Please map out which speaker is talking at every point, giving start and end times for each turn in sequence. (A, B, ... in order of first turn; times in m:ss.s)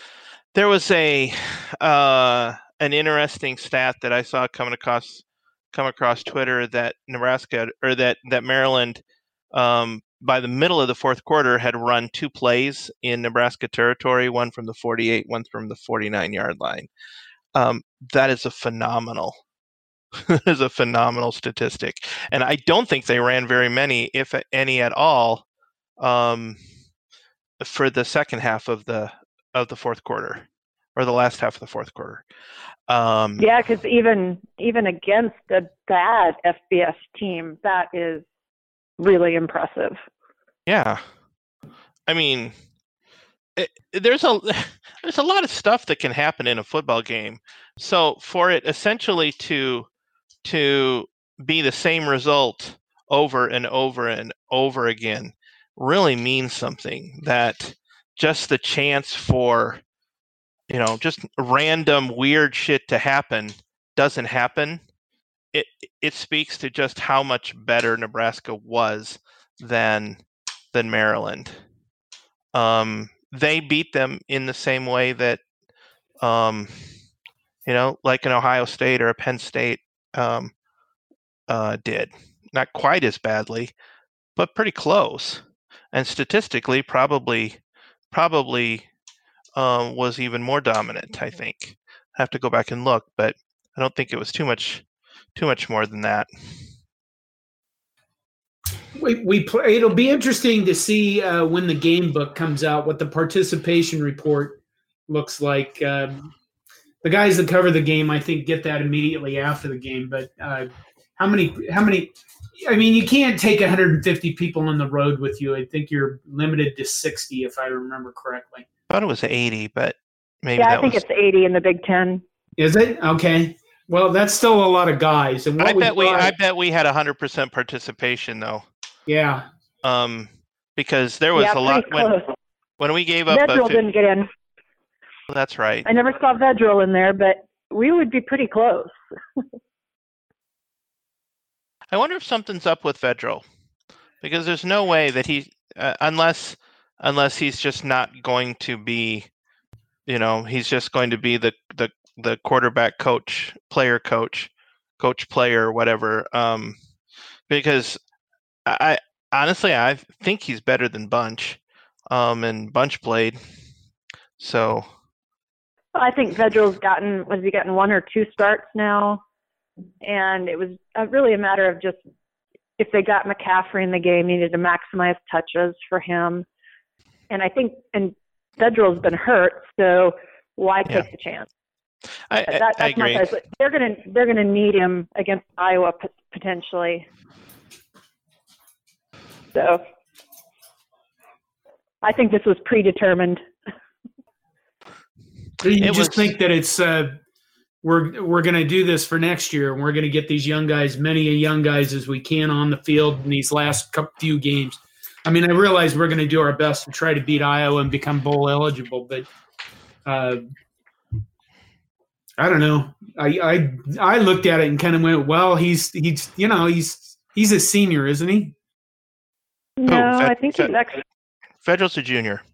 0:00.5-0:16.9 A
0:17.6-0:19.4 A
0:20.2-0:25.4 A
0:26.0-0:26.6 A
0:27.6-0:32.2 A
0:32.9-0:33.4 A
0:33.4-0:38.3 B
0:39.0-0:40.0 B
0:40.7-0:41.0 A
0:42.1-0:42.5 A
0:43.6-0:49.9 A
0:50.4-0:59.8 A
1:00.7-1:04.8 A
1:05.5-1:10.2 A
1:10.7-1:11.6 A
1:12.5-1:15.4 A
1:16.2-1:16.7 A
1:17.7-1:20.5 A
1:21.5-1:23.7 A
1:24.4-1:27.6 A
1:28.1-1:28.9 A
1:29.6-1:34.8 A
1:35.4-1:36.3 A
1:39.0-1:46.3 C
1:47.0-1:58.7 C
1:58.9-2:01.0 A
2:00.6-2:02.2 B
2:02.6-2:06.3 C
2:05.6-2:08.7 A
2:09.1-2:09.5 C
2:09.8-2:12.1 A
2:11.3-2:12.3 B
2:12.8-2:13.8 A
2:13.3-2:14.3 B
2:15.3-2:15.9 A
2:15.9-2:19.0 B
2:21.9-2:23.4 A
2:24.2-2:29.3 A
2:30.1-2:36.8 A
2:37.5-2:38.0 A
2:38.7-2:41.6 A
2:42.1-2:43.4 A
2:44.4-2:44.9 A
2:46.0-2:49.2 B
2:50.0-2:52.0 B
2:52.8-2:56.5 B
2:57.3-3:01.5 B
3:02.3-3:03.2 A
3:02.5-3:07.1 B
3:09.5-3:09.8 B
3:12.0-3:13.4 B
3:15.6-3:17.2 C
3:15.8-3:16.3 A
3:17.8-3:29.3 C
3:30.1-3:30.4 C
3:32.4-3:38.6 C
3:39.8-3:41.0 B
3:39.9-3:40.7 A
3:41.6-3:42.4 A